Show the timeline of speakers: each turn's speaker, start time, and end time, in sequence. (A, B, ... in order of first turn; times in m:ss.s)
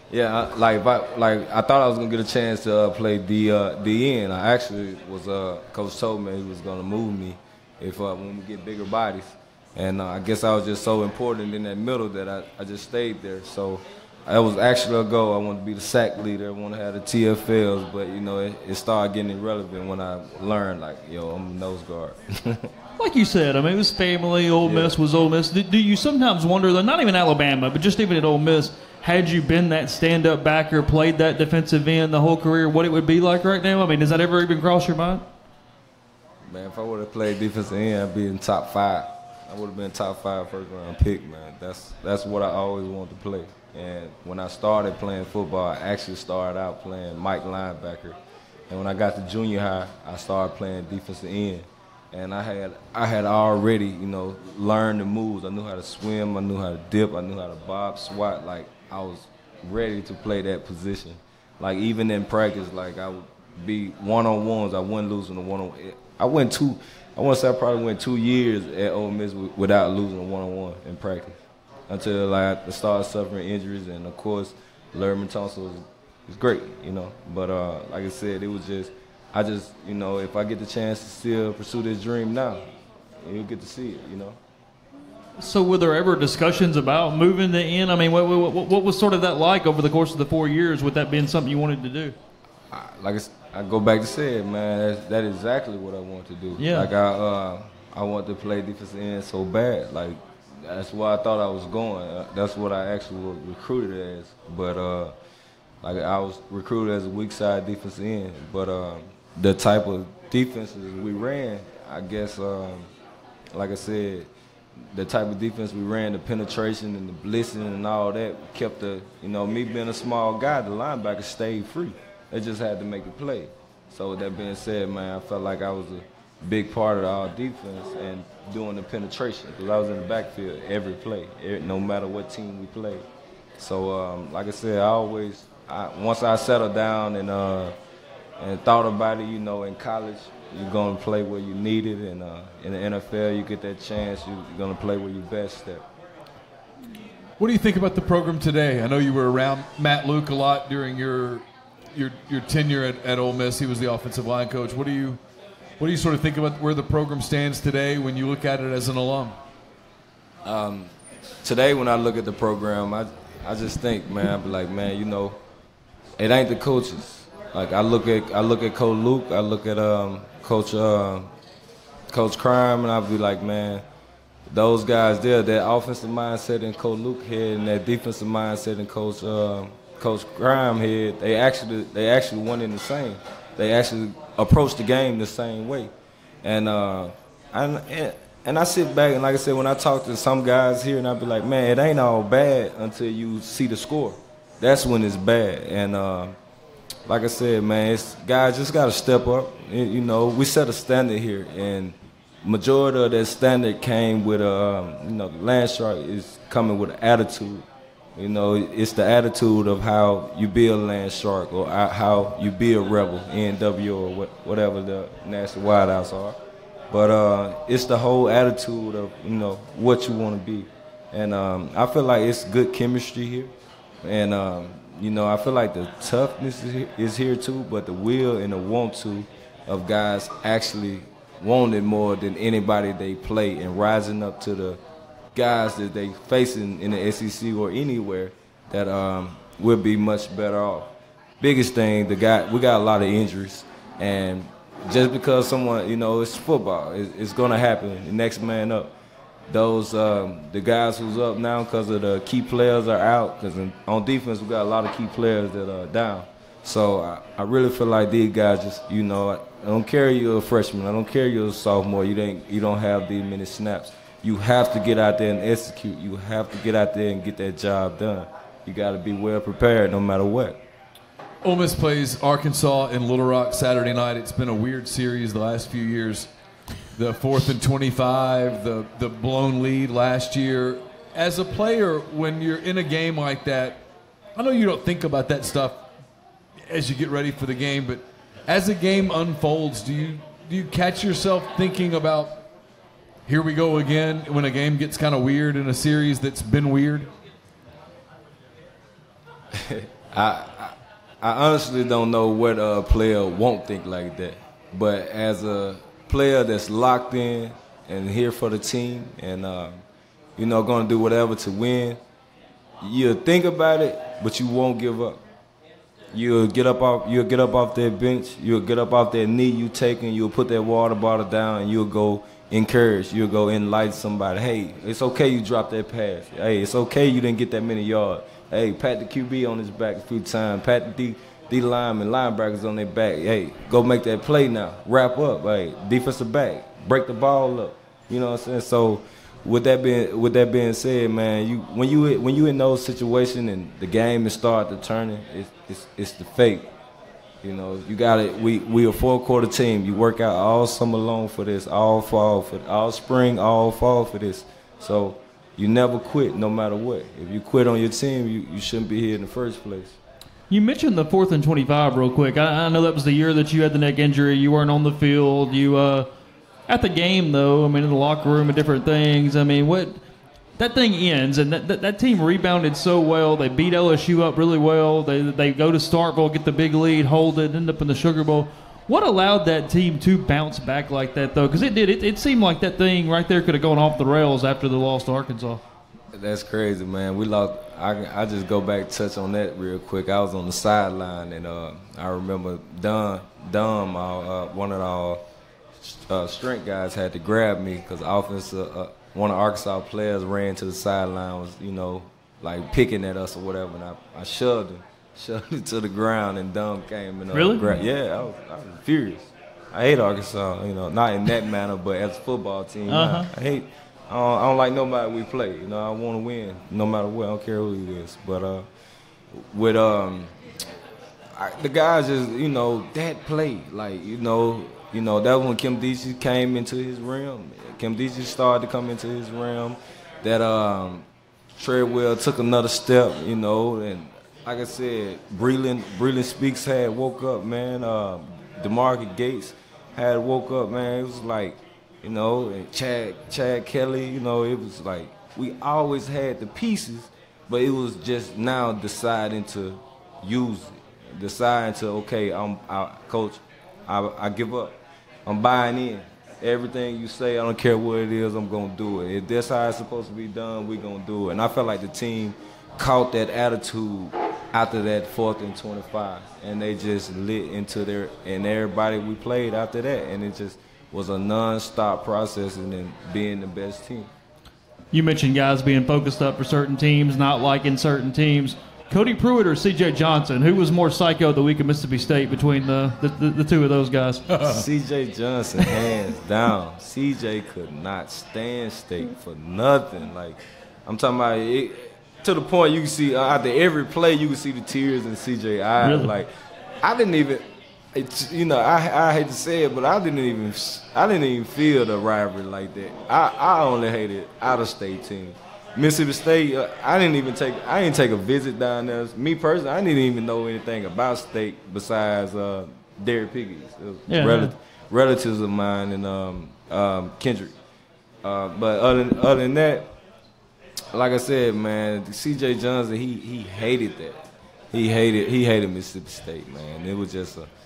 0:00.1-0:22.7 A
0:23.0-0:35.2 B
0:24.6-0:25.0 A
0:36.5-0:48.2 A
0:48.7-1:11.4 A
1:11.9-1:22.6 A
1:23.2-1:24.4 A
1:25.4-1:32.2 B
1:32.7-1:45.1 A
1:36.6-1:36.9 B
1:45.8-1:52.9 A
1:53.5-1:54.3 A
1:54.9-2:13.0 A
2:13.6-2:17.7 A
2:18.4-2:25.8 A
2:27.4-2:35.2 C
2:35.8-2:39.4 C
2:40.4-2:45.4 A
2:46.2-2:51.3 A
2:52.1-2:53.8 A
2:54.5-3:05.9 A
3:06.4-3:16.4 A
3:17.0-3:36.4 A
3:36.9-3:54.8 A
3:55.3-4:08.9 A
4:09.5-4:30.6 A
4:31.4-4:36.3 C
4:36.9-4:43.8 C
4:44.4-4:45.8 C
4:46.7-4:52.4 C
4:53.3-4:57.1 C
4:59.5-5:09.8 A
5:10.4-5:12.0 A
5:12.8-5:15.2 A
5:16.1-5:46.7 A
5:47.4-6:00.0 A
6:00.5-6:06.1 B
6:06.7-6:10.0 B
6:10.6-6:25.6 B
6:26.1-6:35.2 A
6:35.8-6:58.6 A
6:47.3-6:47.7 B
6:52.9-6:53.3 B
6:59.3-7:00.3 A
7:01.3-7:54.1 A
7:54.9-8:04.2 B
8:04.3-8:04.6 C
8:04.4-8:16.3 A
8:15.8-8:16.1 B
8:16.8-8:37.5 A
8:34.1-8:34.5 B
8:38.2-8:39.9 A
8:40.9-8:47.5 A